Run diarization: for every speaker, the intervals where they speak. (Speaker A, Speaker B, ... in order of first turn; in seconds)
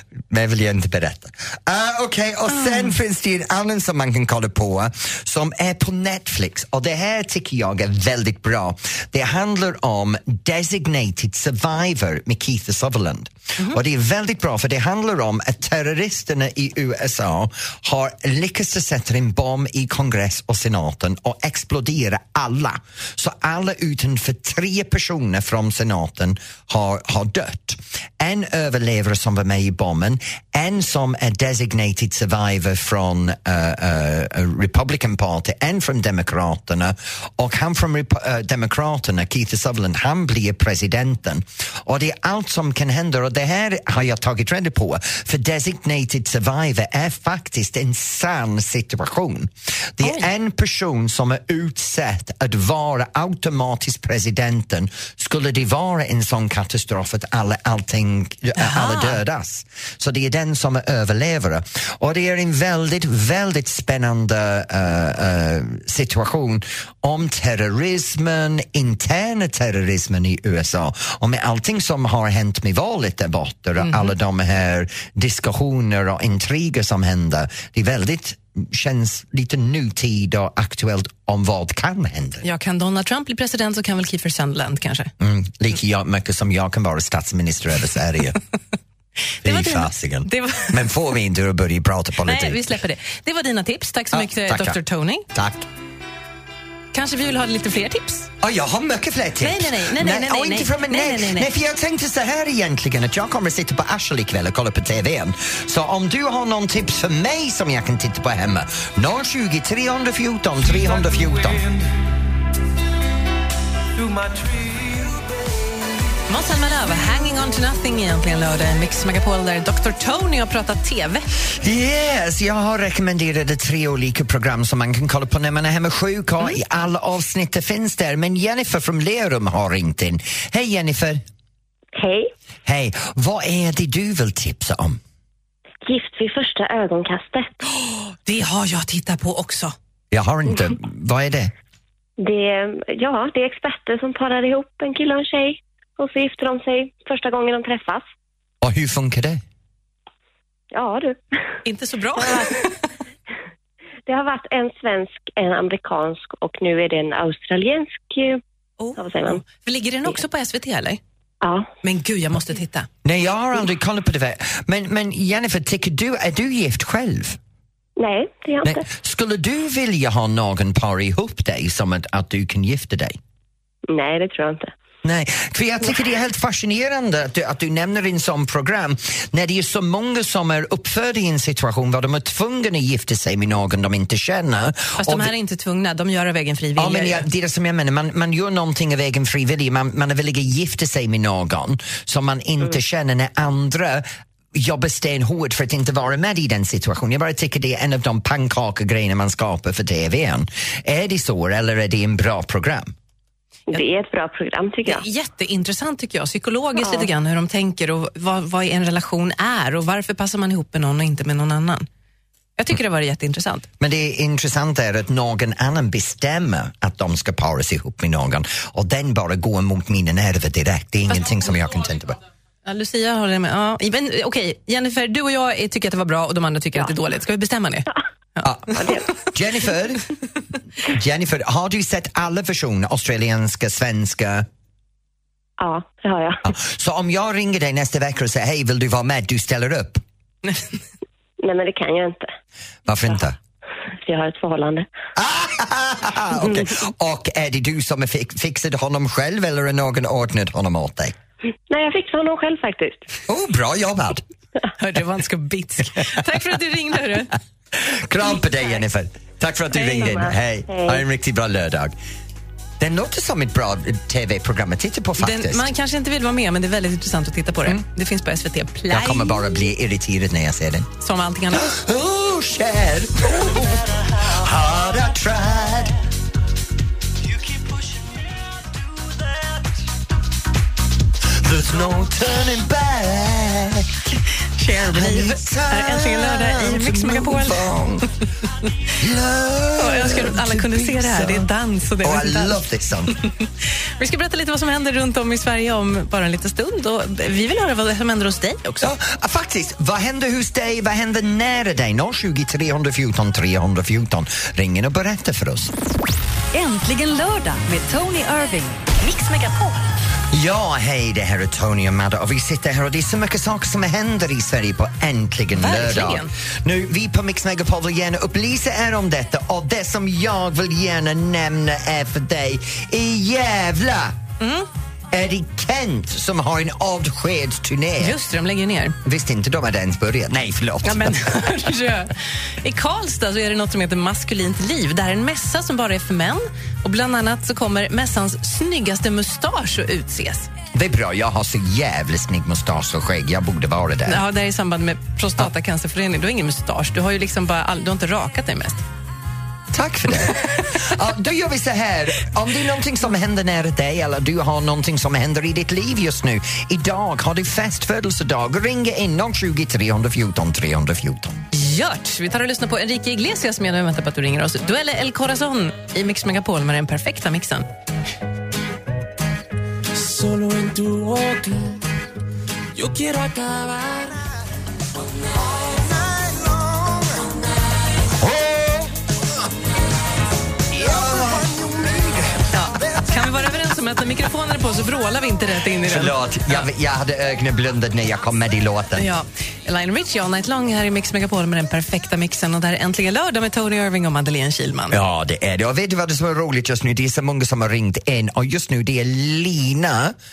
Speaker A: 0.3-82.4, 85.2-88.4, 89.4-92.6, 94.1-94.8, 95.3-95.7, 98.4-111.6, 121.5-131.2, 132.7-135.0, 140.1-141.5, 148.6-149.4, 163.0-167.4, 168.6-173.2, 175.0-185.3, 186.8-202.9, 213.8-222.2, 228.4-230.1, 230.8-234.4, 236.4-240.0, 242.9-243.3, 245.2-251.2, 253.3-254.2, 257.7-261.9, 262.8-265.7, 268.9-270.9, 271.5-276.0, 281.4-284.1, 284.7-288.1, 289.0-291.5, 292.0-293.1, 298.8-305.7, 310.3-324.2, 325.1-328.2, 329.0-331.2, 340.7-344.2, 349.7-361.4, 378.2-378.8, 380.7-381.5, 385.8-389.1, 394.9-400.1
Speaker B: 2.5-2.9, 50.0-50.3, 58.6-59.2, 73.8-74.1, 82.4-85.1, 89.4-90.8, 92.2-95.2, 96.9-98.3, 99.4-101.5, 116.3-121.3, 137.8-139.7, 151.6-152.7, 158.8-161.0, 161.8-162.9, 185.0-187.2, 204.8-211.9, 212.6-213.7, 222.6-227.9, 254.8-257.3, 265.2-269.4, 271.0-271.8, 284.6-287.6, 289.8-292.6, 294.0-298.9, 309.0-309.7, 315.5-316.3, 324.4-324.7, 328.0-329.0, 330.8-340.5, 344.1-348.8, 361.5-367.7, 382.6-386.6, 388.9-395.0
Speaker C: 114.4-115.0, 277.3-278.7, 369.9-371.8, 372.7-374.2, 375.6-377.3, 381.3-382.2
Speaker D: 131.9-132.3, 135.8-137.6, 142.2-148.1, 150.7-151.4, 154.1-158.4, 158.9-159.4, 161.4-161.7, 168.0-168.8, 173.9-174.7, 203.7-205.1, 206.8-207.1, 228.7-229.1, 235.6-236.4, 241.4-242.3, 244.0-244.9, 246.4-246.7, 251.7-253.1, 259.8-261.0
Speaker E: 306.5-309.0